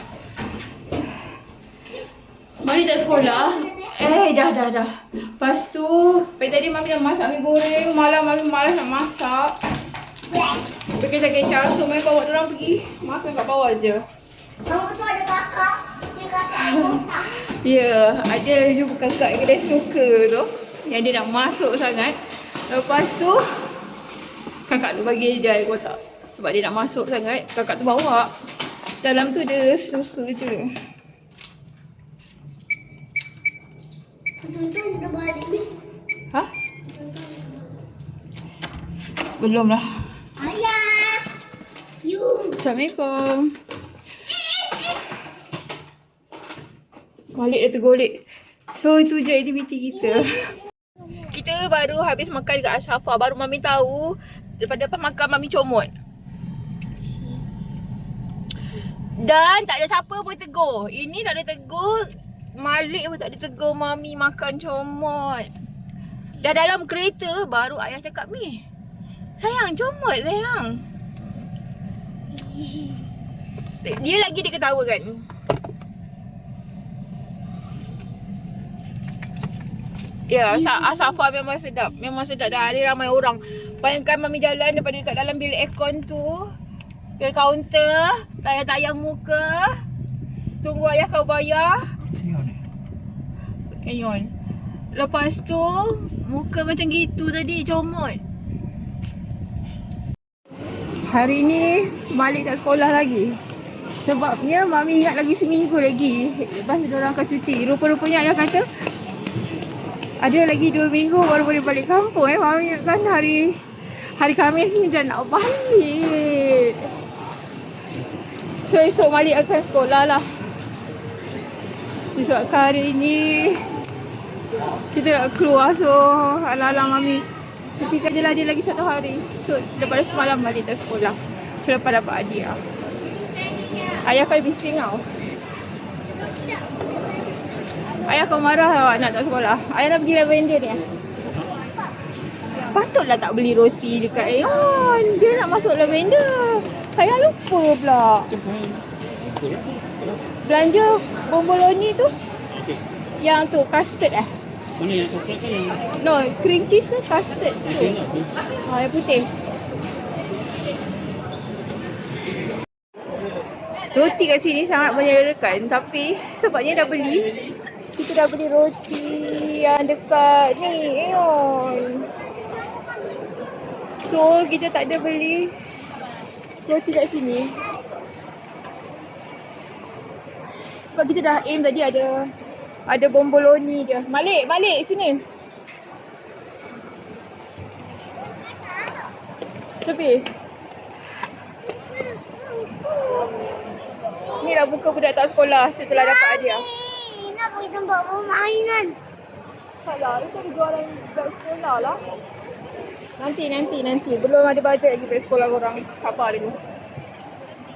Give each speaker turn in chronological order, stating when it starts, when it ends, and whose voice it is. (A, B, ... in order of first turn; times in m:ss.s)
0:02.6-0:09.6 A
0:10.9-0:14.0 A
0:14.6-0:17.2 B
0:16.5-0:23.4 A
0:24.7-0:28.3 A
0:29.0-0:30.7 A
0:34.4-0:35.7 B
0:37.0-0:37.6 B
0:39.4-0:40.0 A
0:40.4-0:41.2 B
0:42.0-0:42.5 B
0:42.5-0:43.6 A
0:47.3-0:50.6 A
0:51.2-0:55.9 A
0:59.2-1:05.5 A
1:06.4-1:08.6 A
1:09.4-1:10.8 A
1:12.3-1:13.0 B
1:13.8-1:15.2 A
1:20.3-1:26.5 A
1:27.2-1:29.8 A
1:30.6-1:31.9 A
1:32.0-1:32.6 C
1:33.7-1:34.3 A
1:34.9-1:38.2 A
1:41.1-1:43.4 A
1:44.0-1:48.6 A
1:50.2-1:56.9 A
1:58.6-2:00.2 A
2:02.1-2:03.6 A
2:04.9-2:12.6 A
2:13.8-2:15.0 A
2:16.4-2:17.3 B
2:17.9-2:20.8 A
2:22.5-2:28.3 A
2:28.3-2:30.2 C
2:30.4-2:32.1 A
2:32.5-2:32.8 C
2:33.2-2:34.3 A
2:34.8-2:35.9 C
2:36.0-2:38.0 A
2:37.6-2:38.3 C
2:38.6-2:39.3 A
2:43.9-2:47.4 A
2:47.9-2:52.1 A
2:54.0-2:55.5 A
2:56.6-2:57.6 A
3:00.8-3:02.3 A
3:02.9-3:05.2 A
3:08.2-3:09.1 B
3:09.8-3:10.3 A
3:11.9-3:13.3 B
3:14.4-3:16.6 A
3:16.0-3:19.0 B
3:19.8-3:22.0 A
3:23.2-3:26.6 A